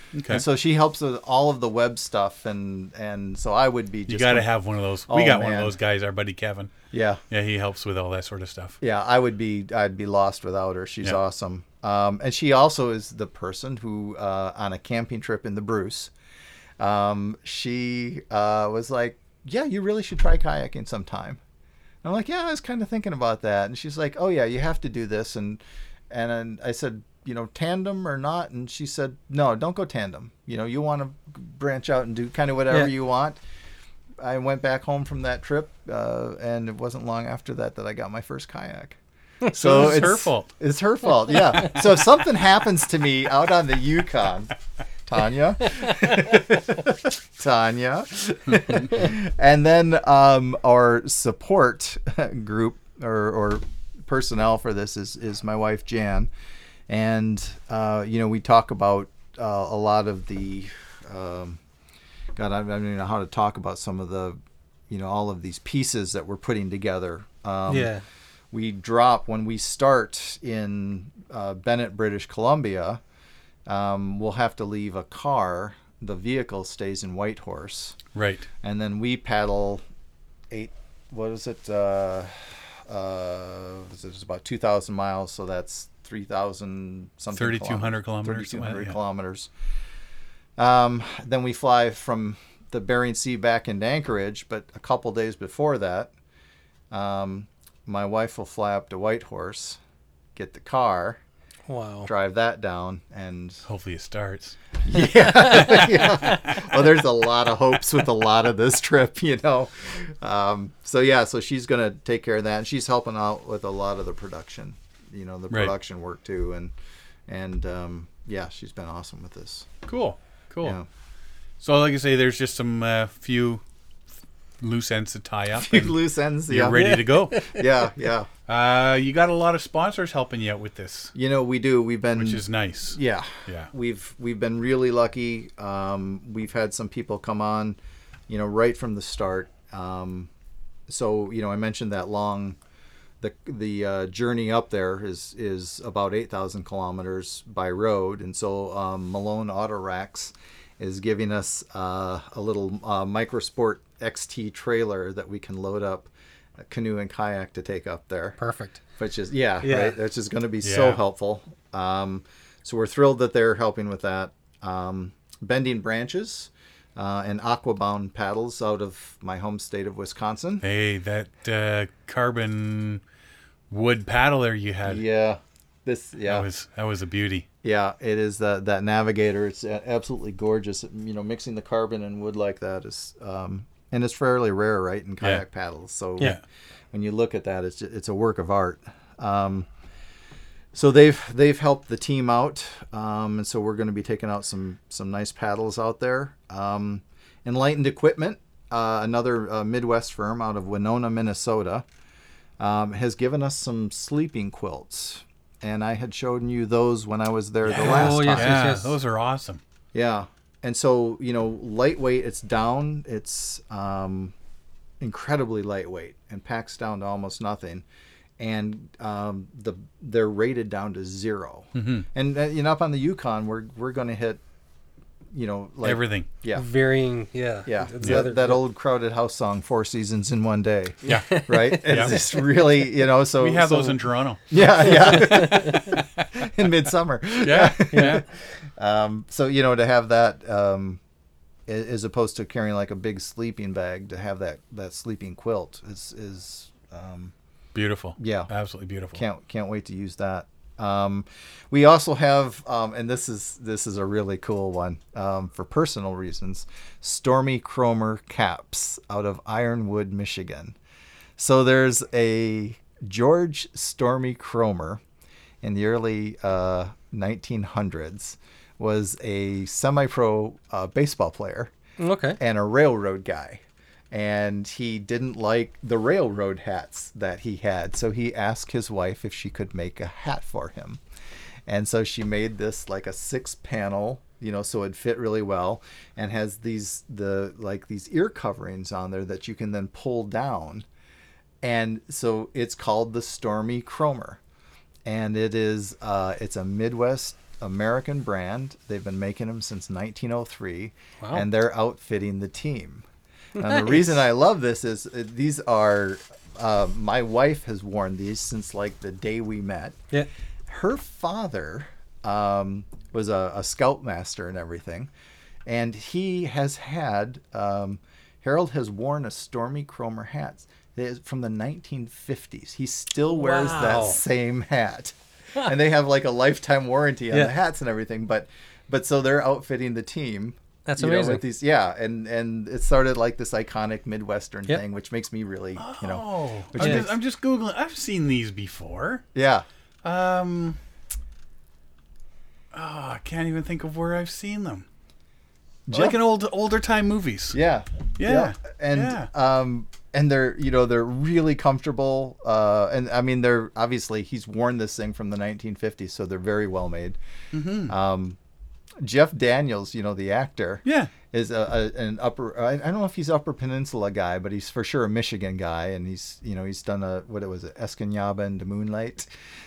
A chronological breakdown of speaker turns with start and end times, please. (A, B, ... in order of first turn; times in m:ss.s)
0:00.1-0:00.4 A
0:00.3-0:04.5 B
0:04.1-0:06.7 A
0:05.1-0:05.8 B
0:06.9-0:07.2 B
0:07.3-0:08.8 A
0:08.8-0:16.1 B
0:16.8-0:21.4 B
0:22.0-0:33.4 B
0:34.2-0:44.6 B
0:39.5-0:40.5 A
0:45.1-0:56.3 B
0:56.9-1:01.6 B
1:02.4-1:07.9 B
1:07.7-1:08.0 C
1:08.5-1:13.0 B
1:13.7-1:18.0 B
1:18.1-1:18.5 A
1:18.6-1:19.8 B
1:20.5-1:29.5 B
1:27.3-1:29.0 A
1:30.6-1:36.1 B
1:36.9-1:39.8 B
1:40.4-1:41.2 B
1:41.7-1:42.1 C
1:42.1-1:43.6 B
1:43.7-1:44.6 A
1:44.8-1:56.7 B
1:45.5-1:46.4 A
1:57.3-1:59.7 B
1:59.9-2:00.8 A
2:01.6-2:03.6 A
2:04.6-2:07.5 A
2:05.6-2:08.3 B
2:08.5-2:11.1 A
2:11.2-2:17.8 B
2:12.2-2:13.7 A
2:18.3-2:20.3 B
2:20.9-2:22.6 B
2:23.2-2:36.1 B
2:36.7-2:38.4 B
2:38.4-2:38.8 C
2:39.0-2:50.6 B
2:39.6-2:40.0 C
2:40.6-2:41.0 A
2:50.6-2:53.0 A
2:53.7-2:55.0 A
2:54.9-2:56.5 B
2:56.2-2:57.5 A
2:57.6-3:06.4 B
3:06.9-3:09.7 B
3:10.7-3:21.8 B
3:22.6-3:28.6 B
3:27.6-3:29.6 A
3:27.8-3:28.9 C
3:29.9-3:34.3 B
3:35.0-3:37.8 B
3:38.4-3:44.4 B
3:41.8-3:42.1 A
3:45.3-3:46.7 B
3:45.8-3:46.3 A
3:46.5-3:48.6 C
3:47.7-3:54.0 B
3:51.0-3:52.2 A
3:51.1-3:52.2 C
3:53.4-3:56.5 A
3:54.5-4:01.0 B
3:55.3-3:55.8 C
3:57.4-3:58.2 A
3:57.9-3:58.2 C
4:01.7-4:07.3 B
4:07.7-4:09.2 A
4:08.2-4:08.5 B
4:09.1-4:20.8 B
4:21.4-4:25.0 B
4:25.6-4:31.7 B
4:32.0-4:32.4 C
4:32.4-4:41.0 B
4:41.7-4:50.9 B
4:51.6-4:54.4 B
4:55.1-5:03.0 B
5:03.6-5:10.0 B
5:03.6-5:04.1 C
5:10.7-5:15.1 B
5:15.7-5:37.1 B
5:23.4-5:24.2 C
5:30.9-5:31.4 C
5:35.8-5:39.2 A
5:39.4-5:39.6 B
5:40.0-5:40.8 A
5:42.7-5:44.9 A
5:45.9-5:46.2 B
5:45.9-5:47.6 A
5:47.5-5:57.2 B
5:48.2-5:49.3 A
5:57.5-5:58.0 A
5:57.9-5:58.4 B
5:59.0-6:09.3 B
6:00.8-6:01.1 A